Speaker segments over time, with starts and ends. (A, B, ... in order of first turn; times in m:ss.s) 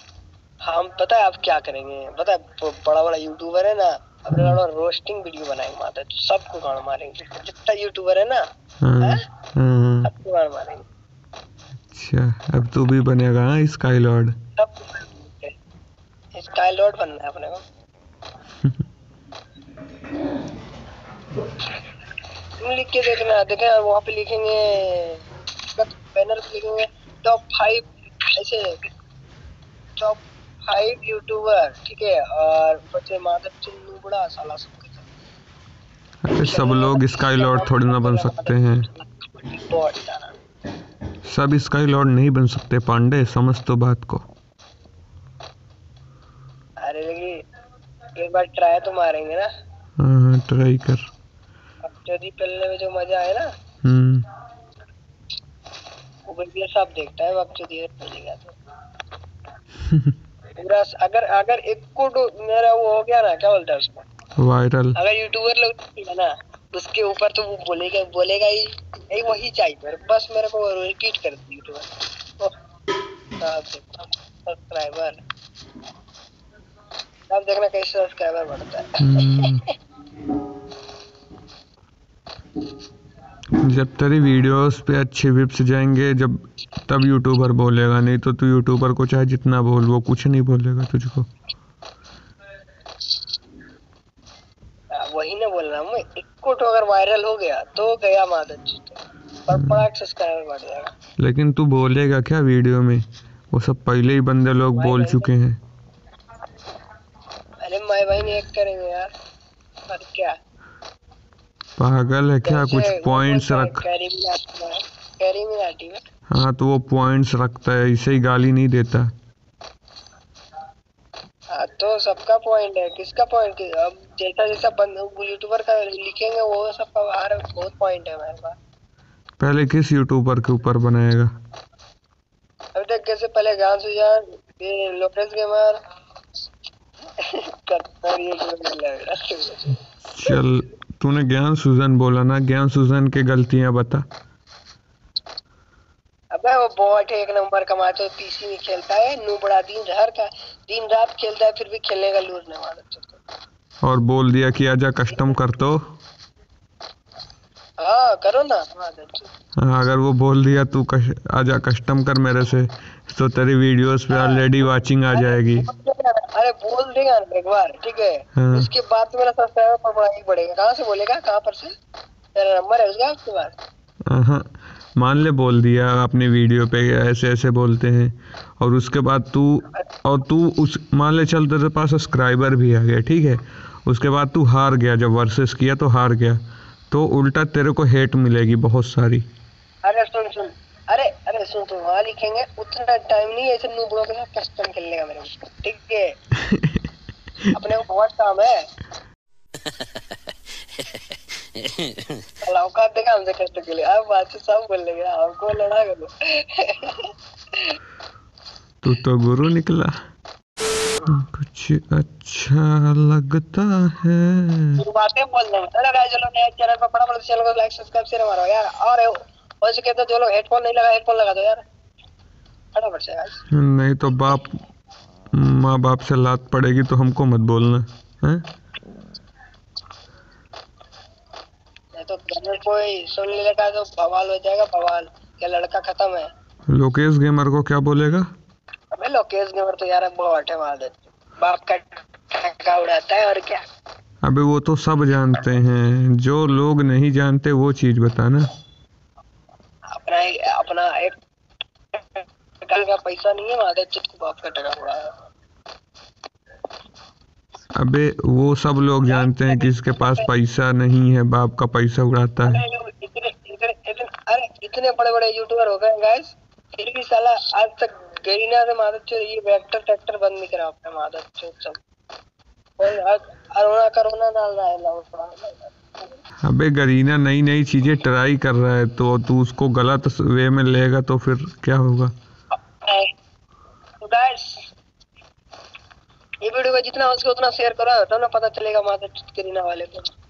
0:00.6-0:08.4 A
0:04.3-0:04.6 B
0:08.8-0:10.1 B
0:10.0-0:10.8 A
0:11.9-0:14.4 B
0:14.6-0:15.5 A
0:16.3-0:17.6 A
0:22.6-0:25.2 A
0:25.7-0:28.8 A
0:30.0-0:35.1 A
0:36.2-0:38.8 B
0:36.4-0:40.4 A
0:41.2-0:44.2 B
0:46.8-0:47.4 A
0:48.2-0:49.5 A
0:50.0-0:51.0 B
0:51.8-0:53.5 A
0:53.8-0:54.3 B
0:56.2-0:58.6 A
1:00.6-1:04.0 A
1:04.4-1:05.0 B
1:05.0-1:12.5 A
1:13.4-1:15.2 A
1:17.3-1:19.7 A
1:19.0-1:19.6 B
1:23.6-1:31.3 B
1:34.9-1:40.9 A
1:41.2-1:45.6 B
1:44.7-1:45.3 A
1:47.6-1:49.1 A
1:49.9-1:50.4 A
1:51.8-1:53.8 B
1:52.4-1:56.0 A
1:56.3-1:59.1 B
2:01.5-2:08.6 A
2:09.4-2:11.3 B
2:12.7-2:15.8 A
2:17.2-2:20.4 A
2:20.0-2:24.0 B
2:26.3-2:33.2 A
2:33.8-2:35.8 B
2:35.1-2:35.4 A
2:37.8-2:39.3 A
2:39.6-2:45.6 B
2:44.1-2:44.5 A
2:45.1-2:51.7 A
2:48.4-2:48.7 B
2:52.3-2:53.5 A
2:54.1-3:09.2 B
3:09.8-3:16.1 A
3:16.5-3:16.8 B
3:17.5-3:18.6 A
3:22.4-3:27.8 A
3:28.8-3:29.9 B
3:31.0-3:34.8 B
3:34.8-3:41.6 A
3:42.7-3:43.4 A
3:43.5-3:44.6 B
3:45.3-3:48.4 B
3:52.0-3:56.3 A
3:56.7-3:58.2 B
3:58.9-4:03.6 A
4:04.2-4:08.5 B
4:09.9-4:11.2 A
4:12.0-4:15.1 A
4:17.8-4:22.6 B
4:19.0-4:20.3 A
4:22.4-4:31.8 A
4:32.8-4:36.2 A
4:36.4-4:42.1 B
4:42.8-4:43.1 A
4:44.0-4:44.7 A
4:46.4-4:50.1 A